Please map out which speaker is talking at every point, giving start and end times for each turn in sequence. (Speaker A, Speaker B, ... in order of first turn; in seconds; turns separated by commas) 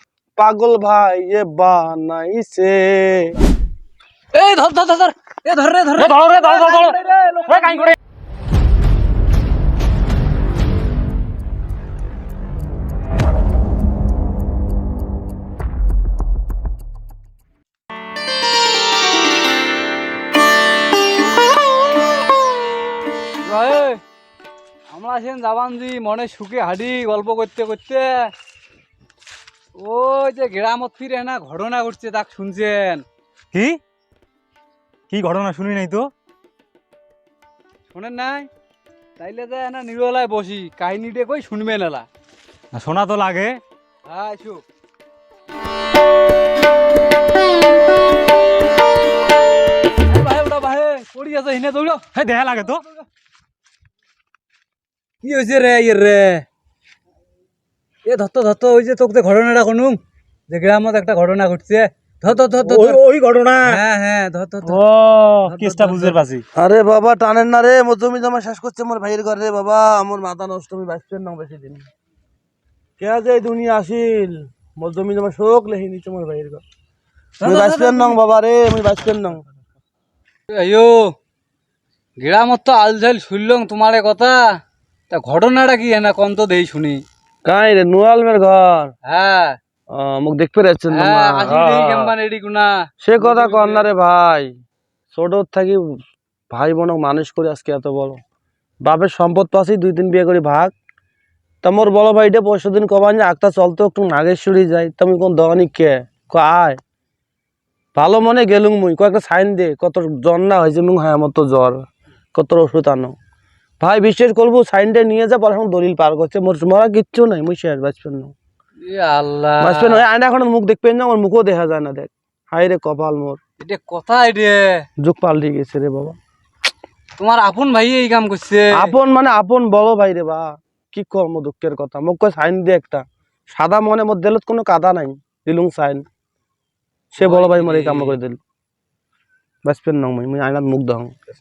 Speaker A: 0.4-3.3, Speaker B: 4.3-8.0, Speaker C: 6.0-8.0, Speaker B: 23.4-24.0, Speaker B: 24.9-28.3, Speaker B: 29.8-33.0, Speaker C: 33.5-33.8, Speaker C: 35.1-36.1, Speaker B: 37.9-38.5, Speaker B: 39.2-42.1, Speaker C: 42.7-43.6, Speaker B: 44.1-44.6, Speaker B: 50.1-53.0, Speaker C: 52.1-52.8, Speaker B: 55.2-56.5, Speaker B: 58.1-63.0, Speaker C: 62.3-63.8, Speaker B: 63.6-64.8, Speaker A: 64.7-65.5, Speaker C: 65.5-66.4, Speaker B: 65.5-66.2, Speaker A: 66.5-71.9, Speaker A: 73.0-76.6, Speaker B: 77.4-78.2, Speaker A: 77.4-79.4, Speaker B: 80.5-81.1, Speaker B: 82.2-84.5, Speaker B: 85.1-87.0, Speaker A: 87.5-88.9, Speaker B: 89.1-89.6, Speaker A: 89.9-91.6, Speaker B: 90.9-93.8, Speaker C: 91.5-92.1, Speaker A: 93.0-94.5, Speaker A: 95.1-96.0, Speaker A: 96.5-98.2, Speaker A: 98.8-100.7, Speaker A: 101.6-106.8, Speaker A: 108.0-113.2, Speaker A: 113.8-118.3, Speaker B: 118.8-120.0, Speaker A: 119.6-123.4, Speaker B: 123.6-124.8, Speaker A: 125.0-126.2, Speaker B: 127.2-128.9, Speaker A: 128.8-136.0, Speaker A: 137.1-138.4, Speaker B: 137.2-138.2, Speaker A: 139.7-141.1